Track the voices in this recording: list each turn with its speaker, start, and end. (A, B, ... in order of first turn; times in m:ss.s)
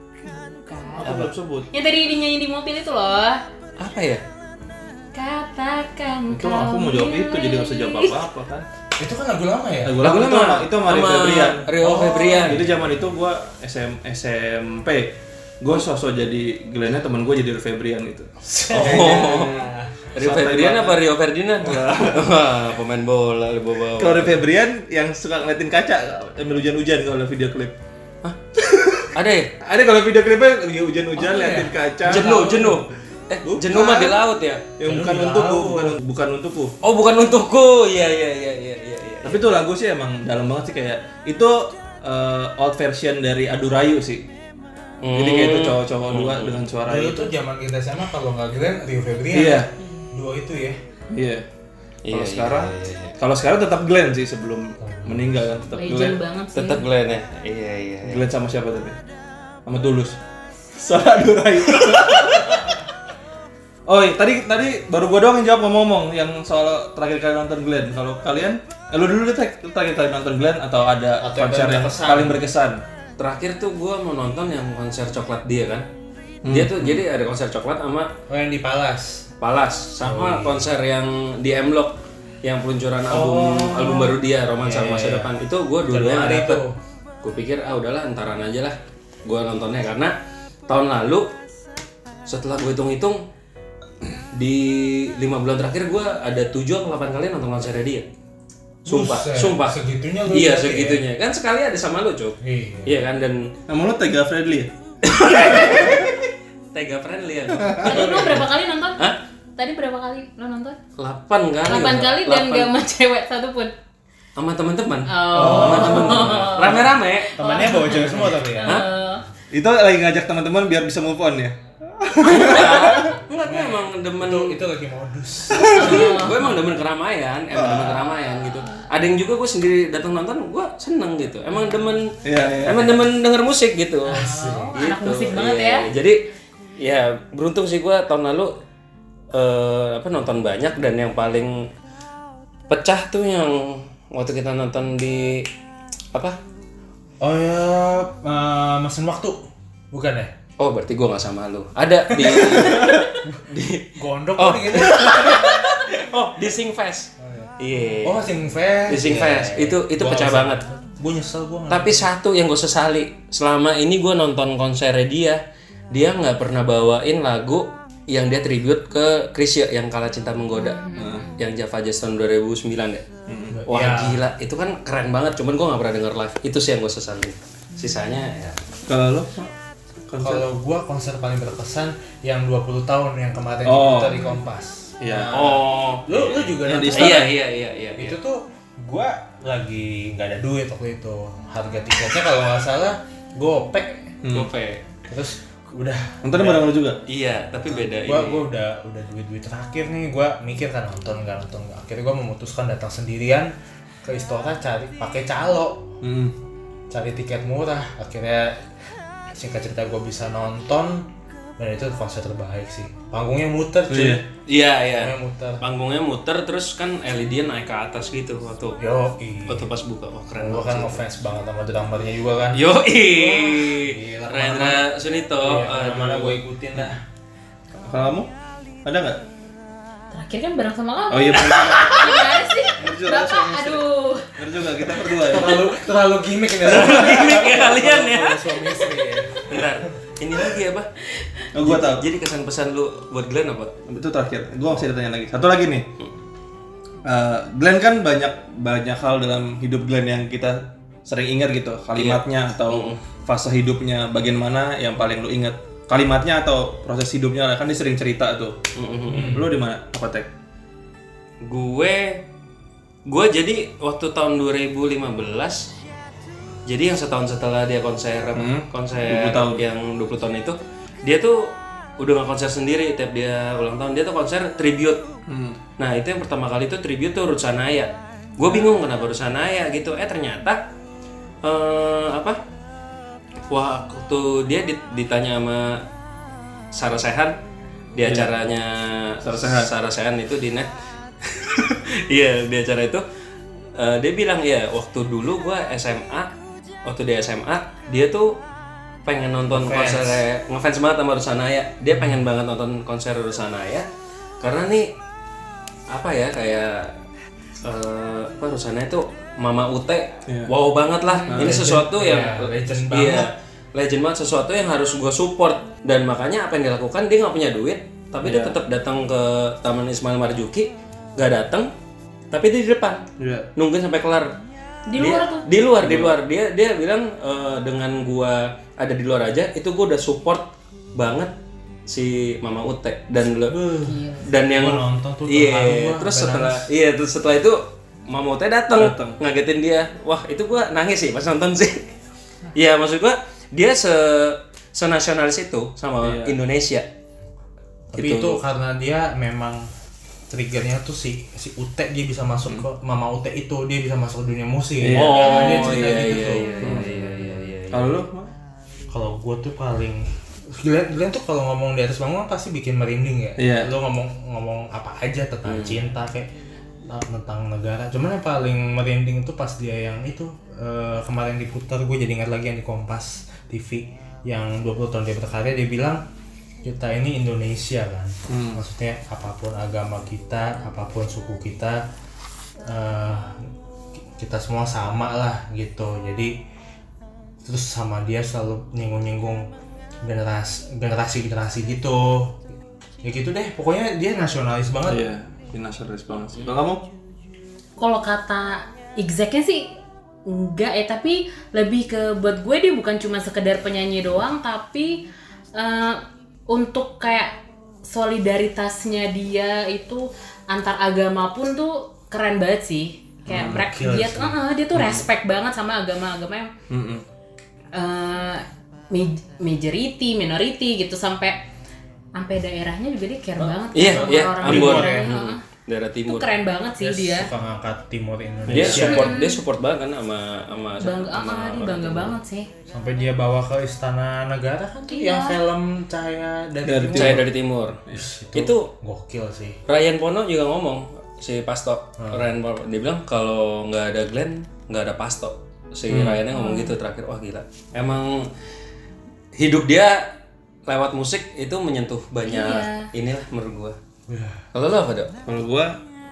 0:00.2-0:03.4 A
0:01.0-0:01.7 B
0:03.8-0:04.2 C
0:05.1-0:08.2 A
0:06.3-0:08.6 B
0:09.0-0:10.1 D
0:09.8-0:11.7 B
0:10.0-0:12.7 C
0:11.8-0:12.8 D
0:12.4-0:21.0 B
0:18.4-0:20.0 D
0:18.7-0:19.6 C
0:20.1-0:24.4 C
0:21.6-0:22.3 B
0:24.0-0:27.7 B
0:28.6-0:29.1 B
0:29.1-0:29.5 C
0:29.6-0:32.5 B
0:31.1-0:32.8 D
0:32.0-0:34.6 C
0:33.4-0:34.2 B
0:34.8-0:36.7 B
0:34.8-0:36.0 D
0:36.8-0:39.4 C
0:39.2-0:44.2 B
0:45.0-0:46.6 C
0:45.1-0:47.3 B
0:46.8-0:50.8 D
0:49.3-0:49.7 B
0:49.8-0:50.1 A
0:51.1-0:51.4 B
0:52.0-0:53.2 C
0:52.1-0:56.2 B
0:54.8-0:55.6 D
0:55.7-0:56.8 A
0:56.5-0:58.2 C
0:58.0-0:59.0 B
0:59.6-1:00.2 B
1:00.7-1:02.8 B
1:03.9-1:12.8 B
1:11.2-1:12.4 D
1:13.2-1:15.9 C
1:16.4-1:17.0 B
1:16.5-1:18.1 C
1:18.3-1:19.2 D
1:19.4-1:26.6 C
1:20.0-1:20.6 D
1:23.1-1:25.3 D
1:25.9-1:26.8 D
1:27.2-1:30.1 C
1:30.7-1:31.3 C
1:32.2-1:33.2 C
1:34.3-1:38.1 C
1:38.8-1:41.0 D
1:38.8-1:43.5 C
1:42.4-1:43.0 D
1:43.7-1:46.2 B
1:45.0-1:46.1 C
1:46.7-1:49.2 C
1:47.6-1:48.4 B
1:47.8-1:49.0 A
1:49.6-1:50.8 A
1:51.0-1:52.7 C
1:51.6-1:53.7 A
1:54.4-1:58.8 C
1:55.1-1:59.2 A
1:55.3-1:56.3 B
1:55.4-1:58.8 D
1:59.5-2:03.1 B
2:02.2-2:04.6 C
2:03.4-2:06.4 D
2:05.6-2:06.0 B
2:05.6-2:06.7 A
2:05.7-2:16.2 C
2:07.5-2:08.1 B
2:08.1-2:08.8 A
2:12.2-2:13.0 B
2:14.1-2:14.8 D
2:14.1-2:15.9 A
2:16.8-2:18.5 C
2:19.3-2:21.7 C
2:22.7-2:25.5 C
2:27.2-2:30.3 D
2:30.6-2:38.2 C
2:32.2-2:33.0 B
2:33.2-2:35.6 D
2:37.2-2:37.5 D
2:38.0-2:42.1 D
2:38.9-2:40.6 C
2:41.7-2:53.0 C
2:50.6-2:51.3 A
2:50.9-2:51.3 B
2:53.3-2:53.6 B
2:53.5-2:54.2 D
2:53.7-2:58.6 C
2:58.9-2:59.5 B
3:00.1-3:00.5 B
3:00.2-3:07.4 D
3:03.6-3:04.3 B
3:05.0-3:05.3 B
3:05.3-3:08.2 C
3:06.6-3:07.3 B
3:08.0-3:14.2 D
3:14.2-3:14.5 B
3:14.3-3:14.8 C
3:15.1-3:16.7 D
3:16.2-3:17.0 B
3:17.1-3:18.4 C
3:17.7-3:23.5 D
3:24.0-3:25.9 D
3:26.0-3:26.3 B
3:26.9-3:28.6 D
3:29.3-3:31.1 D
3:31.6-3:34.2 D
3:33.9-3:34.2 B
3:34.4-3:38.8 C
3:34.9-3:35.6 D
3:38.8-3:39.7 D
3:39.5-3:41.0 C
3:40.4-3:44.9 D
3:42.5-3:46.4 C
3:45.4-3:47.0 D
3:47.8-3:48.3 B
3:48.8-3:49.2 B
3:50.1-3:54.4 A
3:51.1-3:52.2 B
3:51.4-3:51.7 C
3:52.8-3:53.8 B
3:54.4-3:55.7 B
3:55.2-3:59.8 D
3:56.6-3:58.4 C
3:56.7-3:57.5 B
3:59.5-4:00.9 C
4:01.5-4:02.0 B
4:01.6-4:03.7 C
4:03.9-4:05.8 B
4:07.0-4:18.6 B
4:12.0-4:13.0 C
4:18.8-4:19.4 C
4:19.1-4:19.5 D
4:19.1-4:20.3 B
4:21.4-4:22.2 C
4:23.0-4:25.7 C
4:26.7-4:35.0 C
4:28.3-4:29.6 B
4:35.3-4:35.6 B
4:35.8-4:40.7 C
4:41.4-4:42.4 C
4:43.5-4:45.8 C
4:46.7-4:47.4 C
4:47.9-4:50.7 C
4:48.0-4:48.3 B
4:49.2-4:49.7 B
4:51.2-4:53.0 C
4:53.8-4:58.4 C
4:59.0-5:03.9 C
4:59.5-5:00.2 D
5:04.4-5:04.9 C
5:05.9-5:06.9 C
5:07.6-5:21.7 C
5:10.3-5:10.5 B
5:11.1-5:11.3 A
5:11.3-5:11.6 B
5:11.4-5:13.3 D
5:18.2-5:18.6 B
5:22.3-5:24.3 C
5:23.2-5:23.5 B
5:24.9-5:25.5 A
5:25.0-5:31.3 C
5:25.8-5:26.1 B
5:31.9-5:33.6 C
5:33.5-5:36.7 D
5:33.8-5:34.2 A
5:34.2-5:41.9 C
5:38.8-5:39.2 B
5:42.5-5:46.9 C
5:46.0-5:46.4 B
5:47.9-5:49.7 D
5:47.9-5:48.4 C
5:50.3-5:56.8 D
5:54.8-5:55.3 B
5:54.9-5:58.0 C
5:55.2-5:57.3 A
5:57.7-5:58.3 B
5:58.9-6:06.3 D
6:03.4-6:03.7 B
6:05.4-6:05.8 C
6:06.8-6:16.0 D
6:16.6-6:21.8 D
6:18.3-6:18.6 B
6:22.6-6:23.4 D
6:24.2-6:26.3 D
6:27.4-6:29.5 D
6:30.0-6:32.4 D
6:33.0-6:35.0 D
6:34.9-6:36.8 B
6:37.8-6:39.7 A
6:40.2-6:45.0 A
6:45.5-6:47.3 A
6:47.8-6:56.5 A
6:53.3-6:53.6 B
6:53.3-6:54.4 D
6:56.7-6:57.0 B
6:57.7-7:01.4 A
7:02.1-7:05.4 A
7:03.4-7:05.1 D
7:03.7-7:06.3 C
7:06.1-7:07.3 A
7:06.8-7:09.2 D
7:08.5-7:12.2 C
7:08.5-7:09.4 A
7:10.8-7:12.5 A
7:12.7-7:17.3 D
7:14.9-7:15.4 A
7:16.6-7:17.3 B
7:16.9-7:17.8 C
7:17.9-7:19.6 D
7:18.3-7:18.7 C
7:19.7-7:28.3 C
7:22.0-7:22.2 D
7:25.9-7:26.2 B
7:26.3-7:26.7 A
7:29.3-7:30.2 C
7:30.7-7:33.8 C
7:32.3-7:32.9 A
7:34.1-7:34.4 D
7:34.5-7:35.1 C
7:35.2-7:35.8 B